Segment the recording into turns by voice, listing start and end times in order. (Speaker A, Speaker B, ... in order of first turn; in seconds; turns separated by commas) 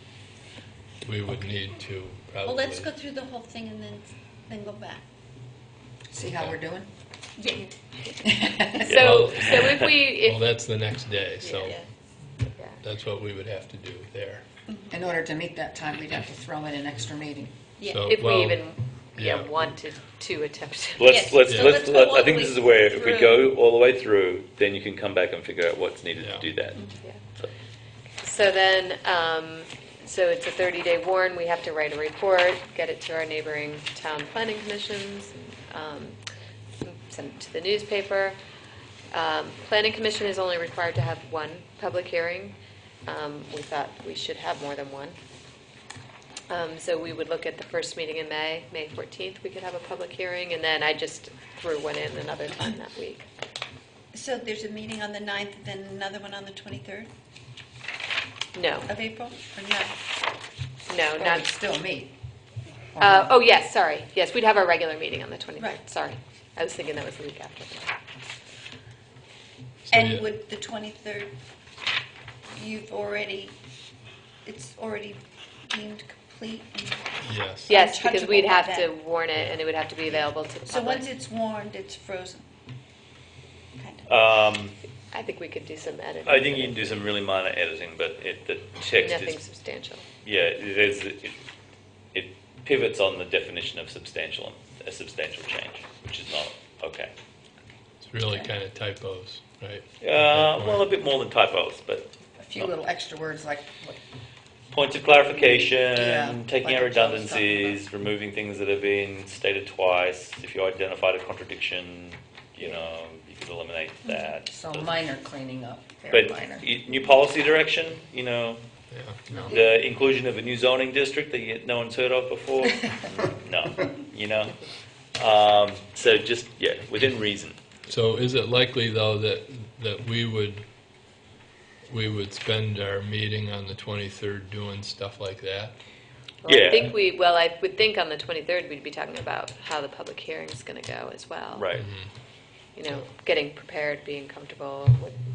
Speaker A: 1.0-2.9, Speaker B: 2.5-5.0, Speaker C: 6.1-6.9, Speaker A: 6.3-6.6, Speaker B: 7.4-7.7, Speaker C: 8.2-8.9, Speaker D: 8.7-10.5, Speaker E: 8.8-9.9, Speaker A: 8.9-11.8, Speaker D: 11.4-11.8, Speaker A: 12.8-14.4, Speaker B: 14.7-14.9, Speaker C: 14.9-17.6, Speaker B: 17.8-18.1, Speaker A: 17.8-19.7, Speaker D: 18.1-21.2, Speaker E: 21.0-26.8, Speaker B: 21.1-23.5, Speaker A: 21.5-21.8, Speaker A: 26.2-26.5, Speaker D: 28.2-36.2, Speaker D: 36.8-38.4, Speaker D: 39.1-45.2, Speaker D: 46.5-53.3, Speaker B: 54.1-57.1, Speaker D: 58.5-58.9, Speaker B: 58.9-60.0, Speaker D: 60.9-61.5, Speaker C: 61.1-62.1, Speaker C: 62.9-63.3, Speaker D: 63.0-68.0, Speaker A: 69.9-70.3, Speaker B: 69.9-71.3, Speaker B: 72.5-73.6, Speaker B: 74.5-78.9, Speaker A: 77.2-77.7, Speaker D: 77.7-81.1, Speaker B: 80.1-82.5, Speaker B: 83.8-84.1, Speaker E: 84.1-84.8, Speaker D: 85.1-87.1, Speaker E: 86.2-89.4, Speaker D: 89.0-90.1, Speaker E: 90.2-91.3, Speaker E: 92.1-97.1, Speaker A: 98.0-100.9, Speaker E: 100.0-102.7, Speaker C: 102.4-104.0, Speaker E: 104.7-115.0, Speaker C: 105.9-107.8, Speaker C: 114.5-116.7, Speaker E: 116.1-118.6, Speaker A: 118.9-119.5, Speaker E: 119.4-124.6, Speaker E: 125.2-127.6, Speaker A: 127.9-130.7, Speaker A: 131.9-135.8, Speaker D: 136.4-141.7, Speaker E: 136.4-136.9, Speaker E: 141.6-141.9, Speaker A: 141.7-142.1, Speaker D: 142.8-145.2